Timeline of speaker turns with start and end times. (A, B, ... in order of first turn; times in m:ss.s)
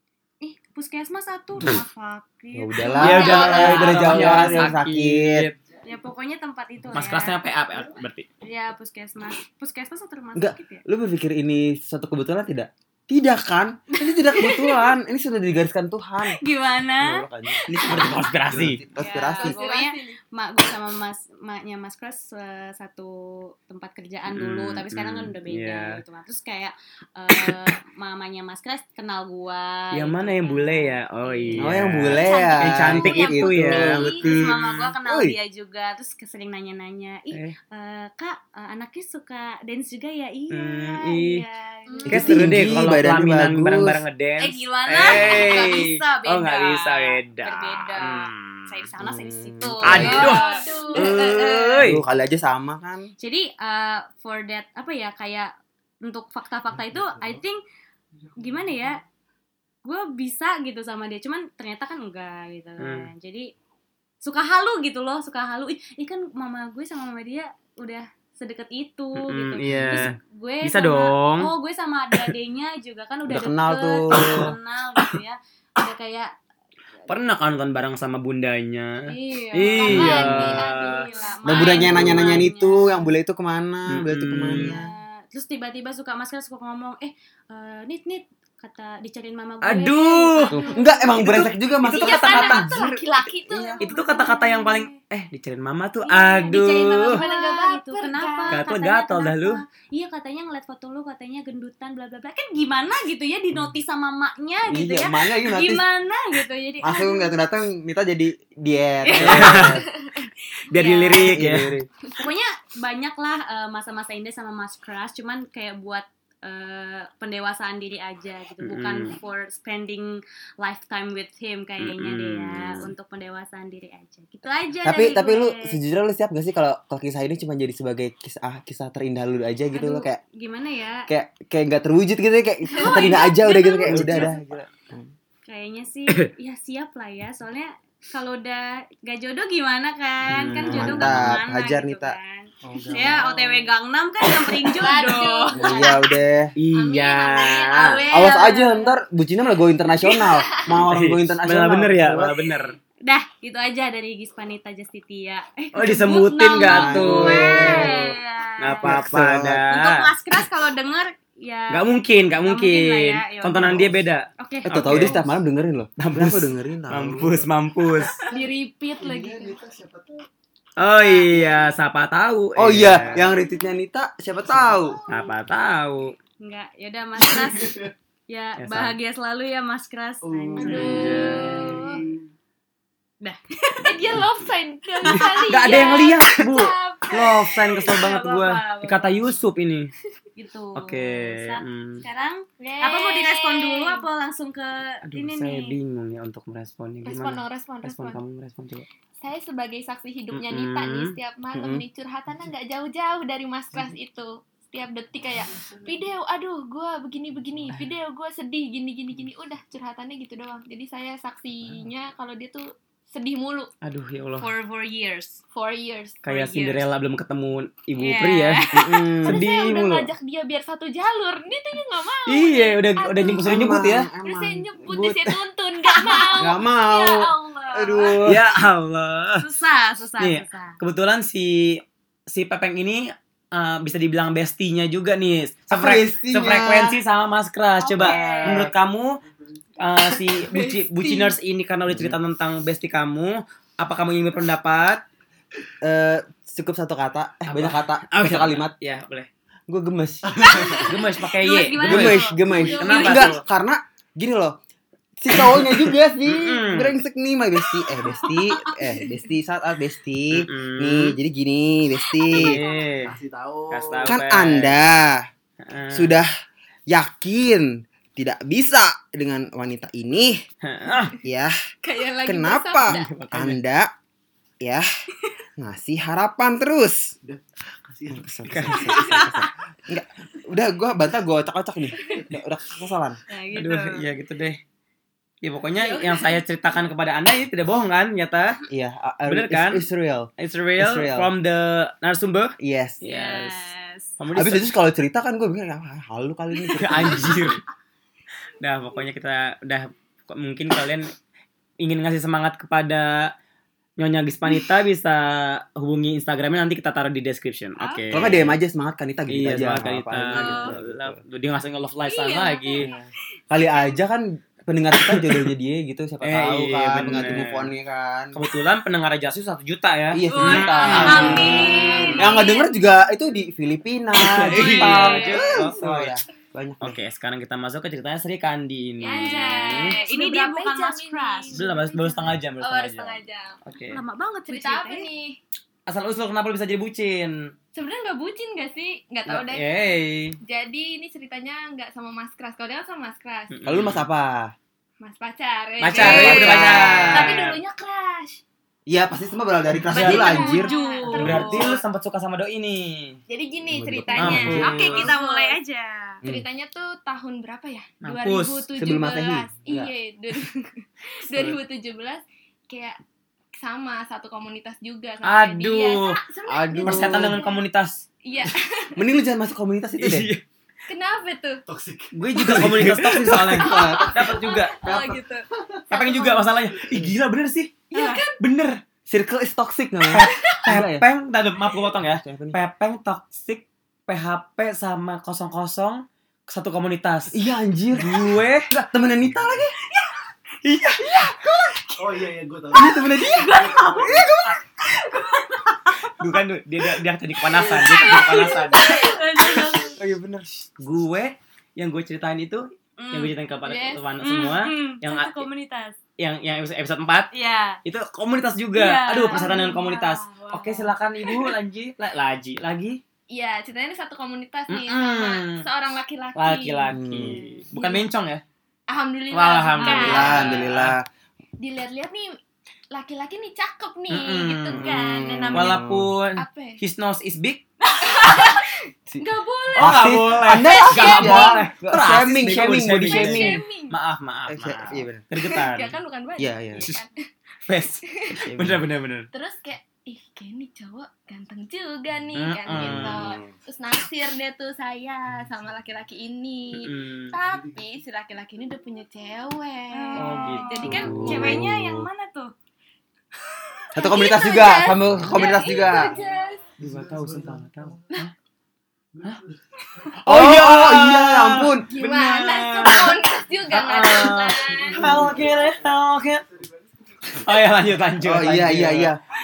0:00.4-0:04.7 A
0:02.5-0:05.5 B
0:02.9-0:04.4 C
0:03.0-0:05.6 D
0:05.8-0:07.4 A
0:06.9-0:08.2 D
0:08.4-0:10.8 A
0:10.3-0:16.4 B
0:14.0-0:14.9 A
0:16.2-0:17.2 A
0:17.0-0:19.6 B
0:17.7-0:18.8 D
0:19.0-0:42.4 A
0:19.3-0:20.2 C
0:24.3-0:26.0 D
0:29.9-0:34.6 D
0:31.6-0:35.4 B
0:32.2-0:33.5 C
0:40.5-0:41.4 D
0:41.9-0:42.4 C
0:42.0-0:44.0 B
0:42.1-0:48.7 D
0:44.4-0:51.6 A
0:45.1-0:45.4 C
0:49.0-0:50.3 B
0:49.8-0:52.0 D
0:50.0-0:51.7 C
0:50.9-0:53.1 B
0:53.2-0:55.5 A
0:56.0-0:57.6 A
0:58.4-0:59.0 A
0:59.8-1:03.5 A
1:02.8-1:03.1 D
1:04.2-1:16.3 A
1:09.2-1:11.5 D
1:09.7-1:10.1 B
1:13.3-1:14.5 B
1:14.1-1:14.5 D
1:17.1-1:21.0 D
1:19.0-1:23.0 A
1:19.7-1:22.2 C
1:21.4-1:24.9 B
1:21.8-1:22.4 D
1:23.9-1:24.7 D
1:24.5-1:30.7 A
1:29.6-1:30.6 D
1:30.5-1:33.9 C
1:30.5-1:33.8 B
1:31.2-1:33.0 D
1:33.8-1:34.9 A
1:33.8-1:37.2 D
1:36.0-1:47.3 A
1:36.5-1:38.6 C
1:38.5-1:39.6 D
1:44.7-1:45.8 B
1:46.8-1:49.8 B
1:49.0-1:49.7 A
1:49.1-1:49.8 D
1:50.7-1:51.8 D
1:50.7-1:51.3 A
1:51.2-1:51.9 B
1:52.2-2:05.8 A
1:58.6-1:59.1 D
2:01.8-2:02.9 D
2:04.8-2:10.2 B
2:09.7-2:11.1 A
2:11.1-2:15.1 B
2:12.7-2:14.3 A
2:12.8-2:13.2 C
2:13.9-2:14.4 D
2:15.4-2:26.0 A
2:20.3-2:21.4 D
2:20.6-2:22.2 B
2:22.6-2:23.6 E
2:24.7-2:26.0 C
2:25.5-2:26.5 B
2:26.6-2:28.0 D
2:26.7-2:28.5 C
2:27.7-2:28.9 A
2:28.1-2:32.4 B
2:30.0-2:30.7 C
2:30.8-2:32.7 D
2:33.1-2:38.9 A
2:35.7-2:38.0 D
2:36.5-2:38.0 B
2:38.6-2:40.1 D
2:38.8-2:39.6 B
2:39.7-2:41.8 A
2:41.7-2:45.3 D
2:42.4-2:45.2 A
2:44.6-2:47.4 B
2:46.0-2:48.2 D
2:48.3-2:49.6 C
2:48.3-2:50.2 E
2:50.8-2:53.3 D
2:50.9-2:51.6 A
2:52.6-2:55.0 B
2:54.5-2:55.0 E
2:55.1-2:56.1 D
2:56.4-3:01.7 A
2:57.2-2:57.9 E
2:58.6-2:58.9 D
3:00.2-3:02.2 E
3:00.6-3:02.0 C
3:00.6-3:01.8 D
3:03.2-3:04.0 A
3:03.8-3:07.6 C
3:05.0-3:06.1 A
3:05.0-3:09.9 D
3:07.9-3:09.4 A
3:10.4-3:15.7 A
3:10.8-3:12.0 D
3:12.6-3:14.0 C
3:15.0-3:18.8 D
3:17.0-3:18.2 C
3:19.2-3:33.7 C
3:20.3-3:21.2 D
3:21.5-3:21.8 B
3:25.3-3:25.9 E
3:33.8-3:34.5 D
3:34.4-3:35.4 A
3:35.5-3:36.2 C
3:36.2-3:36.8 A
3:36.2-3:40.1 D
3:38.0-3:39.1 A
3:38.7-3:39.4 B
3:39.2-3:48.2 C
3:42.2-3:44.1 D
3:43.4-3:45.3 B
3:45.9-3:46.4 A
3:46.4-3:48.4 B
3:48.2-3:49.5 D
3:49.4-3:50.8 A
3:50.2-3:59.2 D
3:55.7-3:57.0 B
3:57.8-3:58.7 A
3:58.2-3:58.6 B
3:59.8-4:05.0 D
4:00.4-4:01.4 C
4:01.9-4:02.2 B
4:05.8-4:08.7 B
4:07.4-4:09.3 D
4:09.7-4:10.7 B
4:10.2-4:10.9 E
4:10.4-4:13.3 A
4:10.8-4:13.4 D
4:11.9-4:14.6 B
4:12.5-4:13.3 C
4:15.2-4:22.6 B
4:15.4-4:16.9 D
4:18.2-4:18.7 A
4:20.3-4:21.2 D
4:22.3-4:23.1 D
4:22.4-4:22.8 C
4:23.0-4:24.2 E
4:23.7-4:24.8 D
4:24.0-4:25.3 B
4:25.6-4:26.2 D
4:25.9-4:26.3 B
4:26.9-4:30.4 B
4:30.6-4:31.1 D
4:31.2-4:31.5 B
4:31.8-4:33.1 C
4:32.2-4:33.9 B
4:32.9-4:33.6 D
4:35.6-4:37.1 B
4:37.2-4:38.9 E
4:38.1-4:43.2 B
4:38.5-4:38.9 D
4:38.8-4:39.5 A
4:43.3-4:44.0 A
4:43.5-4:44.6 D
4:45.4-4:48.6 D
4:45.8-4:46.4 C
4:48.7-4:51.3 B
4:49.3-4:49.8 D
4:50.4-4:53.7 D
4:52.6-4:53.0 B
4:53.0-4:54.1 A
4:54.2-4:54.6 D
4:54.3-4:57.4 B
4:56.8-4:57.6 D
4:58.6-5:01.1 D
5:01.8-5:03.3 D
5:04.0-5:08.6 D
5:07.8-5:08.1 A
5:08.1-5:11.2 B
5:09.3-5:12.9 D
5:10.4-5:10.7 A
5:12.1-5:12.9 C
5:13.5-5:18.4 B
5:15.0-5:15.5 D
5:16.2-5:17.7 D
5:18.3-5:22.2 D
5:20.1-5:27.0 B
5:20.3-5:22.6 A
5:21.0-5:22.8 C
5:24.2-5:26.2 D
5:24.5-5:25.5 A
5:24.7-5:25.3 C
5:26.8-5:30.0 D
5:29.0-5:31.8 C
5:29.0-5:32.3 A
5:31.5-5:34.0 D
5:32.6-5:33.6 C
5:33.9-5:35.1 A
5:34.5-5:35.4 C
5:35.9-5:37.5 D
5:37.7-5:39.7 C
5:39.3-5:40.4 D
5:40.4-5:43.5 C
5:43.5-5:44.0 D
5:43.6-5:44.5 B
5:45.0-5:48.4 C
5:45.8-5:47.6 D
5:45.9-5:47.3 B
5:46.0-5:47.0 A
5:48.9-5:50.7 B
5:49.8-5:50.5 D
5:49.9-5:51.8 C
5:50.1-5:51.7 A
5:51.1-5:53.2 D
5:53.3-5:55.6 C
5:53.7-5:54.7 B
5:54.1-5:55.1 D
5:54.6-5:56.2 A
5:56.2-6:03.0 C
5:58.0-5:58.7 D
5:58.8-5:59.9 B
6:03.6-6:07.6 C
6:05.2-6:06.2 D
6:06.5-6:07.4 B
6:06.8-6:08.0 D
6:08.2-6:09.0 C
6:09.0-6:10.3 B
6:10.0-6:10.4 D
6:10.9-6:11.6 C
6:11.6-6:12.5 E
6:12.1-6:14.9 D
6:12.4-6:14.3 B
6:13.6-6:16.6 C
6:15.9-6:18.7 D
6:17.9-6:18.4 C
6:17.9-6:18.2 A
6:19.1-6:21.0 B
6:20.1-6:27.4 D
6:20.2-6:20.6 C
6:22.0-6:22.6 B
6:27.3-6:29.7 B
6:27.9-6:28.7 D
6:30.6-6:31.8 D
6:32.0-6:34.3 E
6:32.7-6:34.5 B
6:33.2-6:34.2 A
6:35.0-6:36.2 A
6:36.2-6:39.1 D
6:37.6-6:40.0 A
6:37.6-6:39.7 C
6:40.0-6:40.7 B
6:40.8-6:45.4 D
6:43.0-6:43.3 A
6:43.6-6:44.0 C
6:44.2-6:46.0 A
6:46.2-6:47.3 D
6:47.3-6:47.8 A
6:47.8-6:53.0 D
6:48.7-6:51.5 A
6:49.3-6:49.8 C
6:53.3-6:57.0 C
6:54.7-6:55.6 D
6:56.4-6:58.4 D
6:56.9-6:57.4 B
6:57.3-6:57.6 A
6:57.7-6:58.0 C
6:58.9-7:00.7 C
6:59.3-7:00.9 D
6:59.7-7:00.4 A
7:00.0-7:01.0 B
7:01.6-7:02.4 C
7:02.9-7:06.8 C
7:04.1-7:04.9 D
7:04.7-7:06.1 B
7:05.5-7:07.6 D
7:08.0-7:11.7 C
7:08.0-7:08.4 A
7:09.8-7:15.9 D
7:09.8-7:13.6 B
7:12.4-7:14.0 C
7:14.5-7:15.2 B
7:15.4-7:17.2 C
7:16.4-7:16.8 B
7:16.8-7:17.0 D
7:17.7-7:19.3 D
7:18.4-7:18.8 B
7:19.3-7:31.6 C
7:22.3-7:23.4 D
7:22.7-7:23.2 B
7:26.7-7:27.3 D
7:27.4-7:27.8 E
7:29.9-7:32.5 A
7:30.1-7:31.6 D
7:30.8-7:32.0 B
7:33.9-7:36.1 B
7:34.0-7:36.6 C
7:35.2-7:35.6 D
7:36.0-7:36.2 E
7:36.8-7:38.0 E
7:36.8-7:38.3 D
7:39.1-7:39.6 E
7:40.2-7:46.4 D
7:40.2-7:41.9 B
7:41.9-7:45.2 C
7:44.7-7:47.6 E
7:47.3-7:49.1 D
7:48.2-7:49.2 B